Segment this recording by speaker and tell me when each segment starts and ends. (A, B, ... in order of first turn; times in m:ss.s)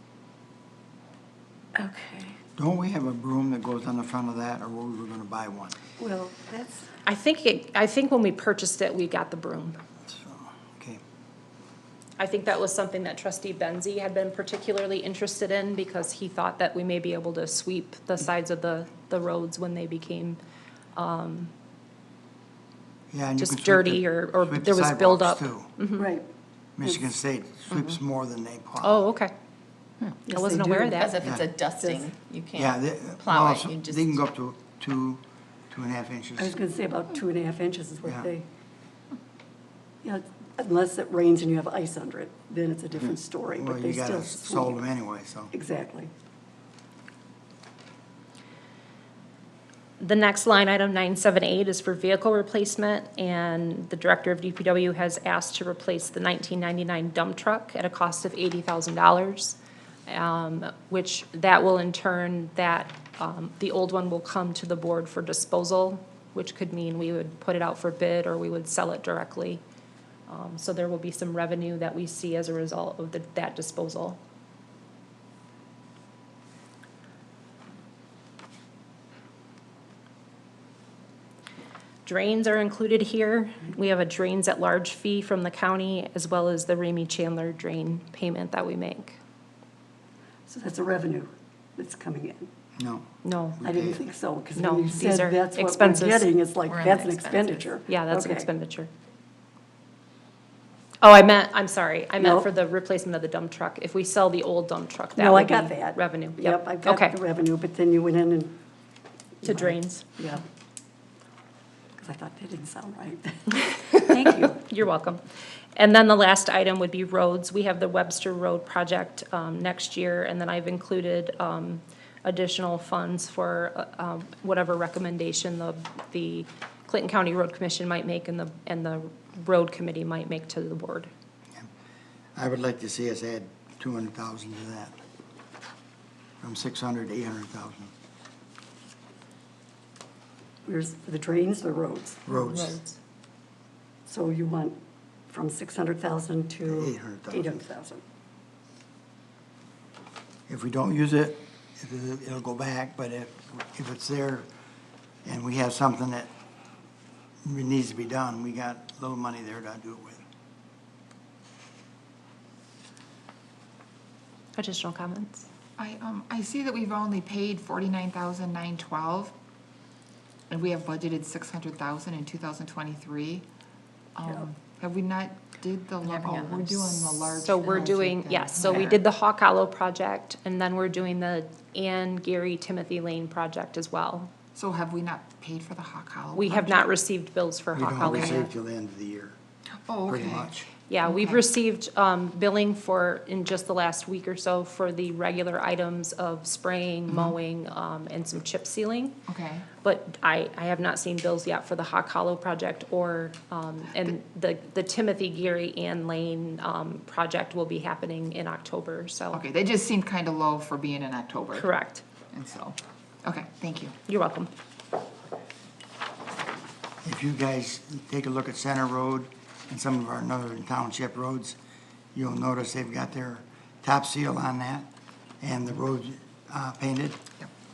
0:01.7-0:02.4 A
0:02.6-0:05.8 B
0:06.0-0:06.9 A
0:07.0-0:09.8 C
0:10.1-0:11.0 B
0:12.2-0:20.4 C
0:20.9-0:21.5 C
0:23.1-0:25.7 B
0:23.4-0:26.1 C
0:26.0-0:26.3 A
0:26.8-0:29.1 B
0:28.8-0:29.3 C
0:30.2-0:31.2 A
0:30.3-0:31.2 C
0:30.9-0:34.2 D
0:31.2-0:31.5 B
0:31.8-0:32.1 A
0:32.5-0:36.6 B
0:36.4-0:38.4 A
0:40.0-0:44.8 A
0:43.5-0:45.5 B
0:45.5-0:46.1 A
0:50.0-1:09.6 C
1:10.3-1:14.2 C
1:22.0-1:29.2 C
1:30.5-1:32.5 A
1:32.8-1:34.0 B
1:33.2-1:33.6 C
1:33.6-1:38.5 A
1:34.6-1:36.3 C
1:36.6-1:37.7 D
1:37.9-1:38.9 C
1:41.0-1:47.1 C
1:42.2-1:42.5 A
1:45.2-1:48.6 A
1:49.4-1:50.4 A
1:49.4-1:50.0 C
1:52.0-1:54.6 A
1:54.4-1:55.2 C
1:55.7-2:11.1 C
2:12.4-2:15.0 B
2:16.4-2:17.9 B
2:20.6-2:22.2 A
2:22.2-2:22.8 B
2:22.3-2:23.0 C
2:24.0-2:24.8 A
2:25.3-2:28.0 A
2:26.7-2:27.6 B
2:30.5-2:34.5 B
2:35.2-2:36.3 B
2:37.4-2:40.2 B
2:44.6-2:45.4 C
2:45.8-2:49.3 E
2:50.5-2:53.4 E
2:54.1-2:59.0 E
2:54.2-2:54.5 A
2:56.0-2:57.1 D
2:57.4-3:04.3 C
3:04.5-3:06.9 E
3:06.3-3:08.5 C
3:07.7-3:09.4 B
3:08.0-3:08.3 E
3:09.9-3:11.4 E
3:10.1-3:10.6 B
3:10.9-3:19.2 C
3:17.1-3:17.3 E
3:19.3-3:19.7 E
3:19.8-3:29.4 C
3:29.3-3:31.7 E
3:31.5-3:32.0 C
3:32.3-3:34.0 E
3:34.1-3:34.5 C
3:37.0-3:41.6 B
3:42.1-3:44.9 B
3:45.4-3:47.2 B